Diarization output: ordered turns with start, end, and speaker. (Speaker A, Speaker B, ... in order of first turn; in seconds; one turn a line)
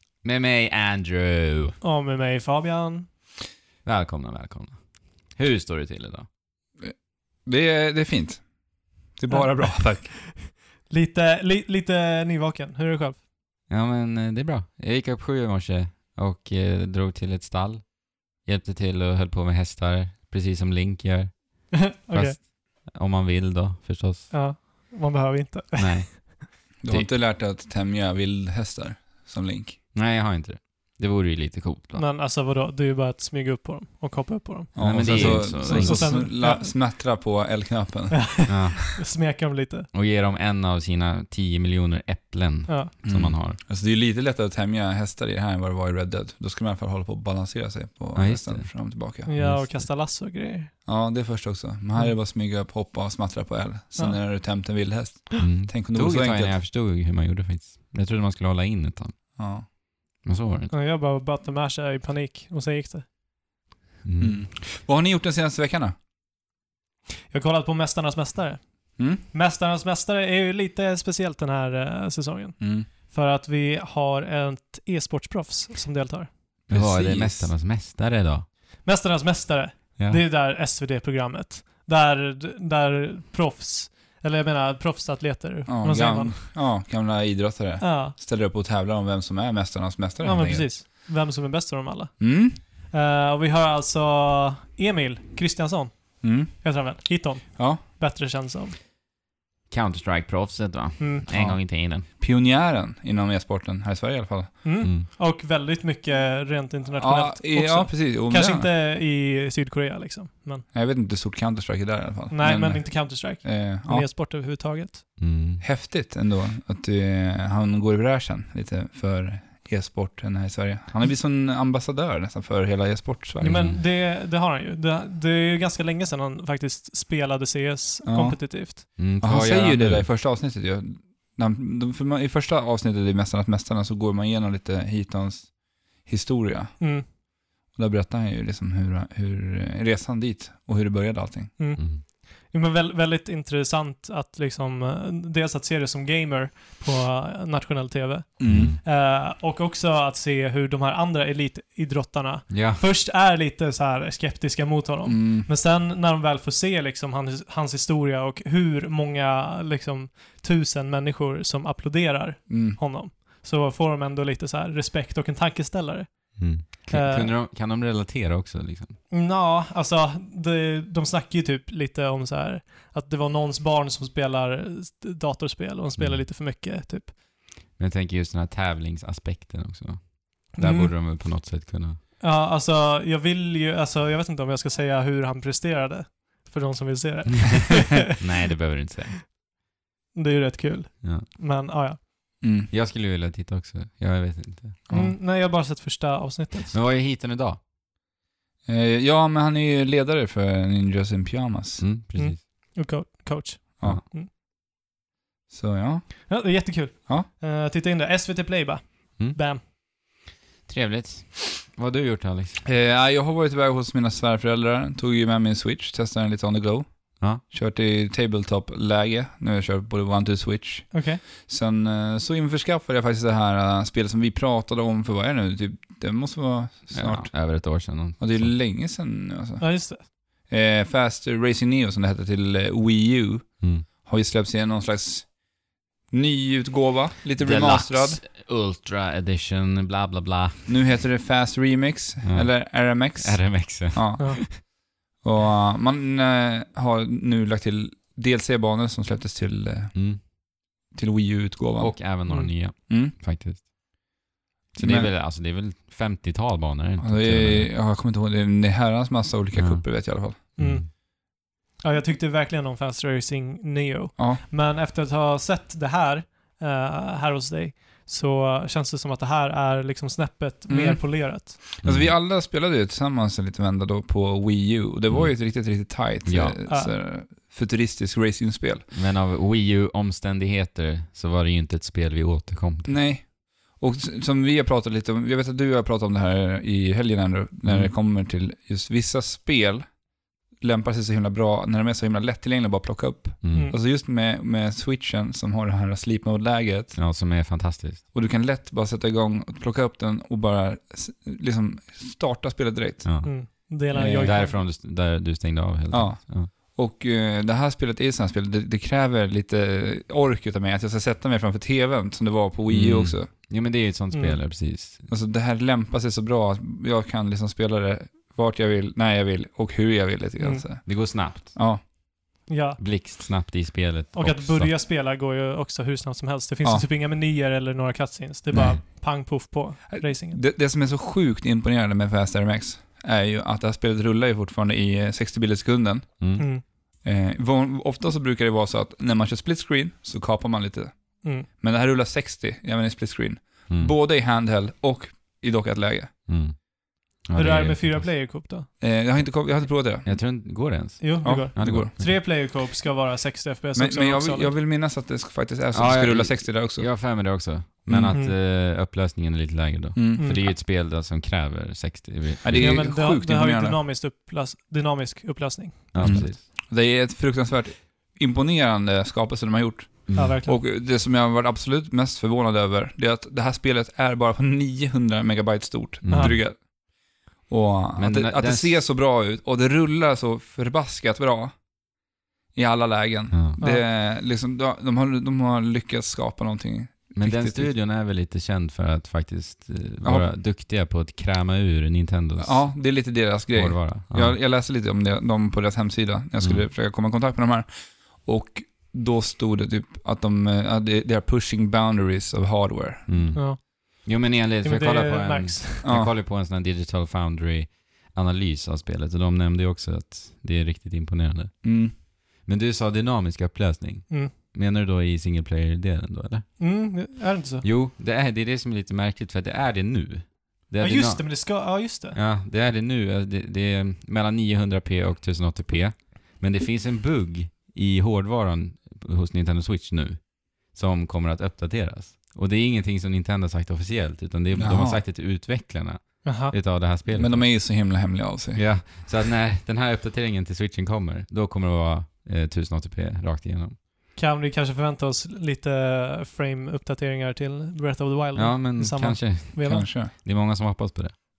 Speaker A: 0.2-1.8
Speaker B: 1.8-3.1
Speaker A: 3.8-6.3
Speaker C: 7.4-8.5
Speaker C: 9.1-10.2
Speaker B: 9.3-13.2
Speaker A: 13.7-24.3
Speaker B: 21.7-22.4
Speaker B: 24.3-26.4
Speaker A: 25.8-27.1
Speaker C: 26.8-29.8
Speaker A: 29.9-32.1
Speaker B: 31.9-36.7
Speaker C: 34.7-38.6
Speaker A: 34.8-36.2
Speaker B: 38.1-39.9
Speaker A: 38.5-39.0
Speaker A: 39.9-43.6
Speaker C: 43.0-49.3
Speaker A: 48.1-49.9
Speaker B: 49.2-50.7
Speaker C: 50.9-56.6
Speaker A: 55.4-59.2
Speaker C: 59.3-59.6
Speaker A: 60.2-60.7
Speaker B: 60.7-63.0
Speaker A: 64.0-64.4
Speaker C: 64.2-65.9
Speaker B: 67.3-76.3
Speaker C: 69.0-69.2
Speaker C: 72.6-72.9
Speaker C: 76.7-77.5
Speaker A: 76.7-78.5
Speaker B: 78.8-86.5
Speaker C: 85.7-90.7
Speaker B: 87.8-88.2
Speaker B: 90.2-98.7
Speaker C: 92.2-92.6
Speaker C: 96.2-96.5
Speaker A: 99.7-102.0
Speaker B: 101.0-101.2
Speaker C: 101.3-104.8
Speaker B: 104.6-110.6
Speaker C: 107.0-108.7
Speaker C: 110.7-114.1
Speaker B: 112.3-115.0
Speaker A: 115.2-115.6
Speaker C: 115.6-123.7
Speaker A: 123.4-123.8
Speaker B: 123.4-128.8
Speaker C: 128.0-136.8
Speaker A: 128.9-130.1
Speaker B: 136.8-137.1
Speaker C: 137.7-141.6
Speaker B: 141.6-167.3
Speaker A: 141.8-142.0
Speaker C: 148.4-148.8
Speaker A: 148.5-148.8
Speaker A: 152.5-152.8
Speaker C: 155.0-155.5
Speaker C: 162.5-162.8
Speaker A: 166.3-169.0
Speaker B: 169.1-177.1
Speaker A: 176.0-176.2
Speaker A: 177.8-182.0
Speaker B: 180.6-180.9
Speaker B: 182.2-188.2
Speaker A: 188.0-189.2
Speaker B: 190.1-192.3
Speaker C: 192.4-192.7
Speaker A: 192.7-194.9
Speaker C: 194.9-195.2
Speaker B: 194.9-196.8
Speaker A: 196.7-197.6
Speaker C: 198.6-201.8
Speaker A: 201.8-202.4
Speaker B: 202.1-204.3
Speaker C: 205.5-206.4
Speaker B: 206.3-209.6
Speaker A: 210.7-212.6
Speaker C: 212.6-229.7
Speaker B: 220.9-221.2
Speaker A: 226.9-228.5
Speaker B: 229.6-230.1
Speaker C: 230.5-235.3
Speaker C: 236.1-238.2
Speaker A: 237.4-240.8
Speaker C: 240.7-249.9
Speaker A: 242.2-244.6
Speaker A: 249.9-250.2
Speaker C: 250.9-252.1
Speaker A: 251.8-253.7
Speaker B: 252.3-252.5
Speaker C: 252.9-253.1
Speaker A: 254.7-257.7
Speaker C: 254.8-255.1
Speaker C: 257.0-260.6
Speaker A: 259.5-260.9
Speaker B: 260.6-261.0
Speaker B: 261.8-271.6
Speaker C: 264.2-264.4
Speaker C: 270.7-278.9
Speaker A: 271.8-272.1
Speaker A: 275.1-276.6
Speaker B: 276.6-276.9
Speaker A: 278.9-282.9
Speaker C: 282.9-289.9
Speaker A: 287.6-287.9
Speaker C: 290.6-297.0
Speaker A: 293.4-293.7
Speaker A: 296.9-298.0
Speaker C: 298.1-303.3
Speaker A: 303.0-303.3
Speaker B: 303.2-304.6
Speaker C: 303.9-304.4
Speaker A: 304.1-306.5
Speaker C: 305.9-313.3
Speaker A: 312.7-315.1
Speaker B: 314.1-314.4
Speaker C: 315.1-321.8
Speaker B: 320.4-320.6
Speaker A: 320.9-321.6
Speaker B: 322.5-322.8
Speaker A: 322.8-324.7
Speaker B: 324.1-330.4
Speaker C: 328.5-328.8
Speaker C: 329.9-336.3
Speaker A: 336.2-336.4
Speaker B: 336.4-336.6
Speaker C: 337.0-346.1
Speaker A: 343.7-343.9
Speaker A: 346.3-346.6
Speaker A: 347.2-348.1
Speaker B: 347.3-348.7
Speaker C: 348.8-350.1
Speaker A: 350.0-352.2
Speaker B: 351.0-354.5
Speaker C: 351.2-351.9
Speaker C: 353.8-357.3
Speaker A: 355.7-362.8
Speaker C: 357.9-358.2
Speaker B: 358.1-358.3
Speaker C: 359.9-360.5
Speaker B: 360.2-360.4
Speaker C: 362.4-363.8
Speaker B: 362.5-366.3
Speaker A: 365.9-366.4
Speaker C: 366.0-376.7
Speaker A: 370.1-370.4
Speaker B: 370.1-370.6
Speaker A: 376.0-376.4
Speaker B: 376.1-376.4
Speaker C: 377.5-381.6
Speaker A: 378.0-378.8
Speaker C: 382.5-387.7
Speaker A: 383.3-383.6
Speaker B: 383.6-383.8
Speaker A: 387.1-392.8
Speaker C: 390.0-390.3
Speaker C: 392.4-403.3
Speaker A: 393.5-394.4
Speaker A: 396.4-396.6
Speaker A: 403.1-417.1
Speaker B: 403.3-403.6
Speaker B: 404.6-405.8
Speaker C: 405.8-406.1
Speaker C: 411.6-411.9
Speaker B: 416.6-417.6
Speaker A: 417.6-437.6
Speaker B: 420.8-422.2
Speaker C: 434.5-435.0
Speaker B: 436.2-436.5
Speaker C: 437.1-438.9
Speaker A: 438.5-443.8
Speaker B: 444.1-449.9
Speaker A: 448.4-451.1
Speaker C: 449.6-450.1